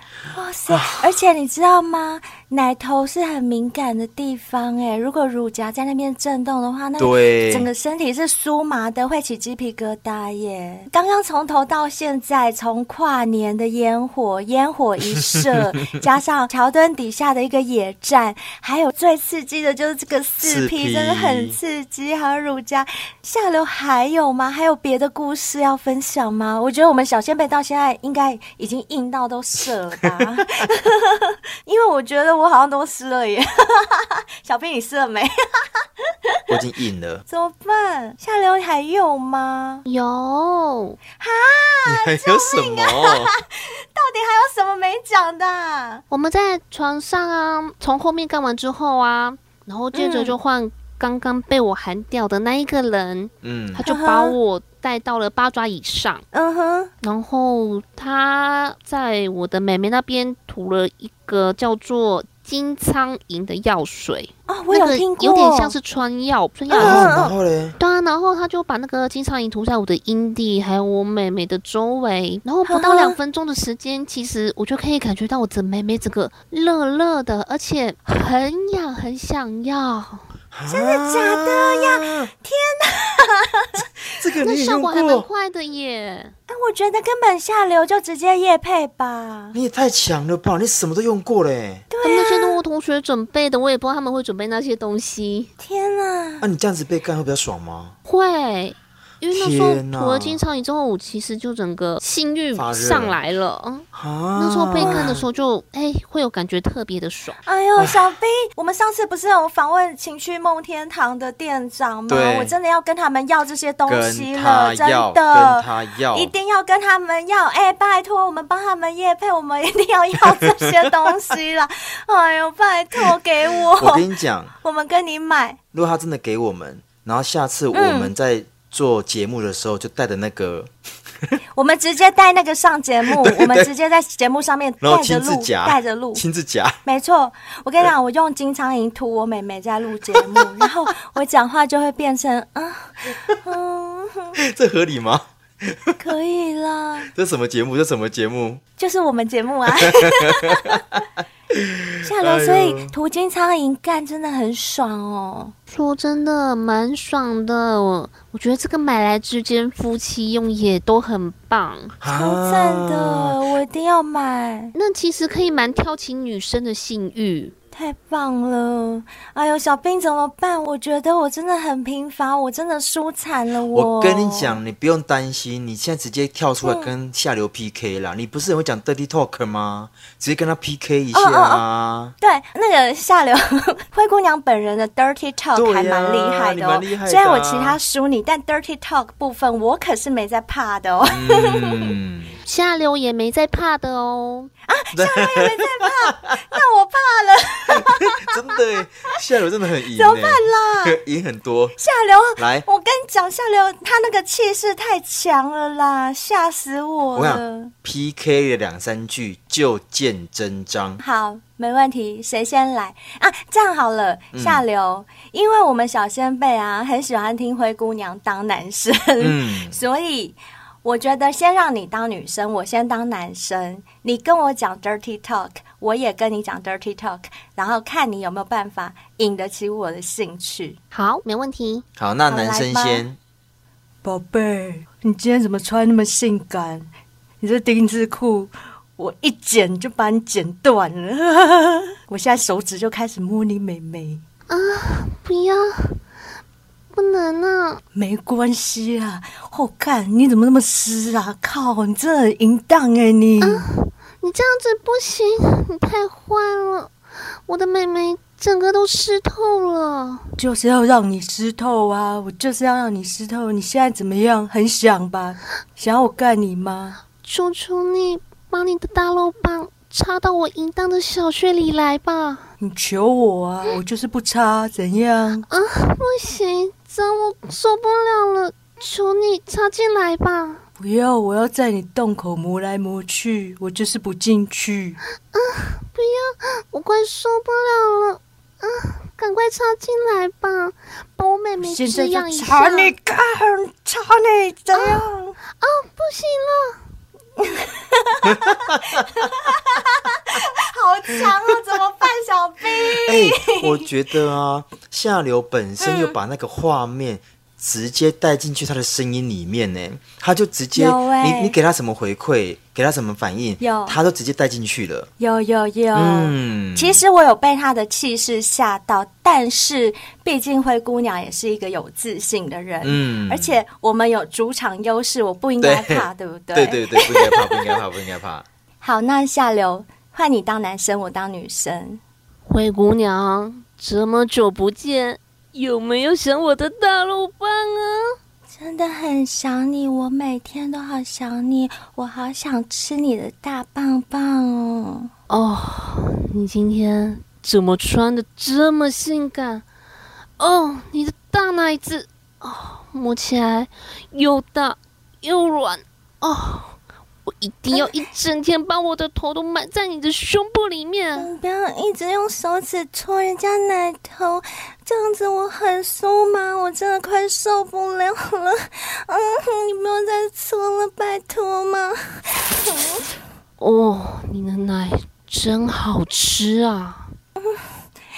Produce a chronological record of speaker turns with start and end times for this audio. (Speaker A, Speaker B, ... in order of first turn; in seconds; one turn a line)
Speaker A: 0.3-36.4
Speaker B: 0.7-1.1
Speaker B: 7.0-7.7
Speaker B: 20.4-21.6
Speaker B: 36.5-37.2
Speaker A: 37.3-39.9
Speaker C: 39.9-41.0
Speaker A: 41.2-46.0
Speaker B: 41.9-43.3
Speaker C: 46.1-56.2
Speaker A: 49.9-50.4
Speaker B: 53.4-53.8
Speaker A: 53.8-54.4
Speaker A: 56.3-56.9
Speaker C: 57.0-67.1
Speaker A: 64.5-65.8
Speaker A: 66.7-67.3
Speaker B: 66.8-67.8
Speaker C: 67.8-80.2
Speaker A: 72.7-73.2
Speaker B: 80.5-82.3
Speaker A: 80.7-83.9
Speaker B: 84.2-85.3
Speaker C: 84.4-86.3
Speaker A: 86.5-89.6
Speaker B: 89.5-91.9
Speaker A: 91.9-92.6
Speaker C: 92.0-95.5
Speaker A: 95.6-96.5
Speaker B: 96.4-98.0
Speaker C: 98.1-103.8
Speaker B: 99.3-100.4
Speaker B: 102.5-103.2
Speaker B: 103.9-105.2
Speaker C: 104.4-107.4
Speaker A: 104.8-105.2
Speaker A: 107.5-125.6
Speaker B: 112.1-112.5
Speaker B: 113.9-116.3
Speaker B: 123.8-124.5
Speaker B: 125.7-130.7
Speaker A: 127.7-128.1
Speaker A: 131.6-136.2
Speaker B: 133.1-133.7
Speaker B: 134.8-136.8
Speaker A: 136.8-144.3
Speaker B: 144.4-146.0
Speaker A: 146.0-147.1
Speaker B: 147.1-148.6
Speaker A: 148.8-150.8
Speaker B: 149.9-151.0
Speaker B: 151.5-153.0
Speaker A: 152.0-155.5
Speaker C: 155.7-162.0
Speaker B: 162.0-163.3
Speaker A: 162.1-164.8
Speaker C: 164.8-167.5
Speaker A: 167.7-174.6
Speaker B: 173.7-182.1
Speaker A: 176.6-176.9
Speaker A: 181.1-181.6
Speaker A: 182.2-191.9
Speaker B: 185.6-187.8
Speaker B: 191.1-192.3
Speaker C: 192.4-194.5
Speaker A: 194.7-198.4
Speaker B: 194.9-196.4
Speaker B: 197.7-201.8
Speaker A: 199.9-201.0
Speaker A: 201.8-207.7
Speaker B: 202.4-202.7
Speaker B: 207.2-211.0
Speaker A: 211.0-230.8
Speaker B: 214.3-214.6
Speaker B: 219.2-219.8
Speaker C: 230.9-231.8
Speaker B: 232.0-233.2
Speaker A: 232.3-233.1
Speaker A: 234.0-236.9
Speaker A: 237.4-244.2
Speaker C: 244.5-246.0
Speaker C: 246.9-247.8
Speaker A: 247.9-253.6
Speaker C: 253.4-256.9
Speaker C: 257.5-260.3
Speaker A: 260.4-267.0
Speaker C: 267.2-272.5
Speaker A: 272.6-275.5
Speaker C: 275.5-280.6
Speaker A: 280.8-285.0
Speaker C: 285.3-292.9
Speaker A: 291.6-295.4
Speaker C: 294.8-296.8
Speaker A: 297.4-303.9
Speaker B: 298.3-299.0
Speaker B: 303.1-315.1
Speaker A: 305.8-306.1
Speaker A: 310.8-311.6
Speaker A: 313.6-314.0
Speaker A: 315.2-327.8
Speaker B: 315.9-317.0
Speaker B: 322.8-323.6
Speaker B: 325.6-328.5
Speaker A: 328.8-332.0
Speaker C: 332.5-338.2
Speaker A: 338.5-345.1
Speaker C: 345.3-349.6
Speaker C: 350.4-356.8
Speaker C: 357.3-361.3
Speaker A: 361.2-372.0
Speaker A: 372.5-373.1
Speaker C: 373.6-377.1
Speaker A: 377.4-377.7